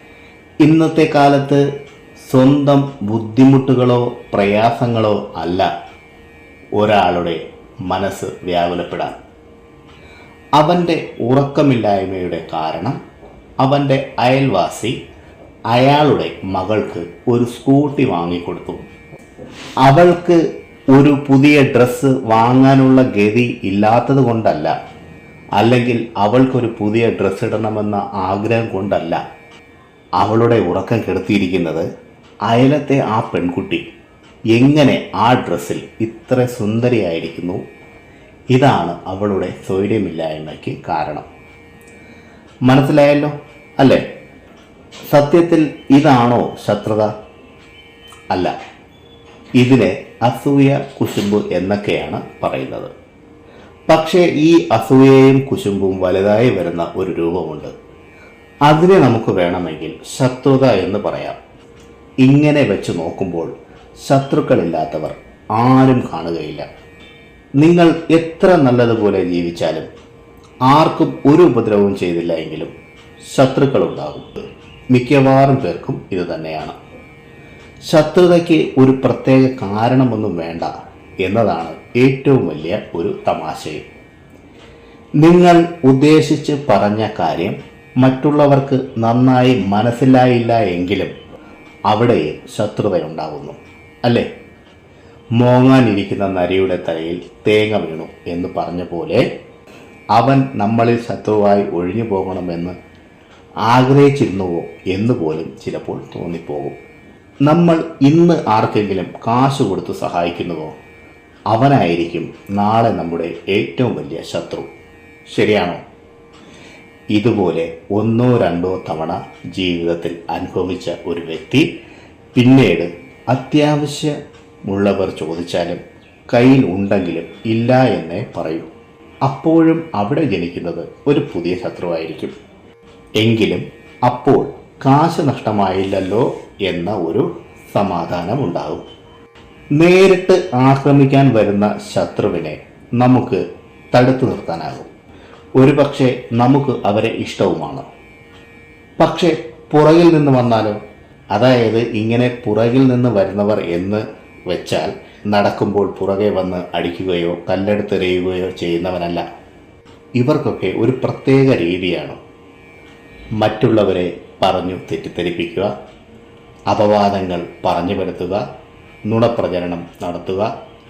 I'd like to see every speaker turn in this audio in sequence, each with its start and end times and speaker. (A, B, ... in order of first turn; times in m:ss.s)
0:00.6-0:01.7 A
0:02.2-0:05.7 A
0:06.8-0:09.2 A
0:10.6-0:13.0 A
0:13.6-0:15.0 A
0:15.7-0:18.8 A
0:19.8-0:20.4 A
0:20.9-0:24.8 A
0:25.6-0:29.2 A
0:30.2-0:31.9 A
0:32.5-0:33.9 A
0:34.5-0:37.6 A
0:38.5-0:41.3 A
0:42.6-0:44.0 A
0:45.1-0:47.1 A
0:49.6-0:52.9 A
0:53.9-0:57.7 A
0:58.7-1:01.4 A
1:02.2-1:06.7 A
1:07.6-1:09.9 A
1:10.7-1:16.8 A
1:17.8-1:20.7 A
1:21.2-1:23.8 A
1:25.2-1:31.1 A
1:31.9-1:34.3 A
1:35.4-1:39.2 A
1:40.1-1:42.8 A
1:43.6-1:46.8 A
1:47.4-1:50.8 A
1:51.5-1:54.7 A
1:55.3-1:55.8 A
1:57.1-2:01.7 A
2:02.4-2:08.7 A
2:09.2-2:12.3 A
2:13.2-2:18.8 A
2:19.7-2:24.9 A
2:25.6-2:27.8 A
2:29.0-2:30.8 A
2:31.3-2:39.2 A
2:40.2-2:42.2 A
2:43.4-2:45.7 A
2:46.7-2:48.4 A
2:49.0-2:50.5 A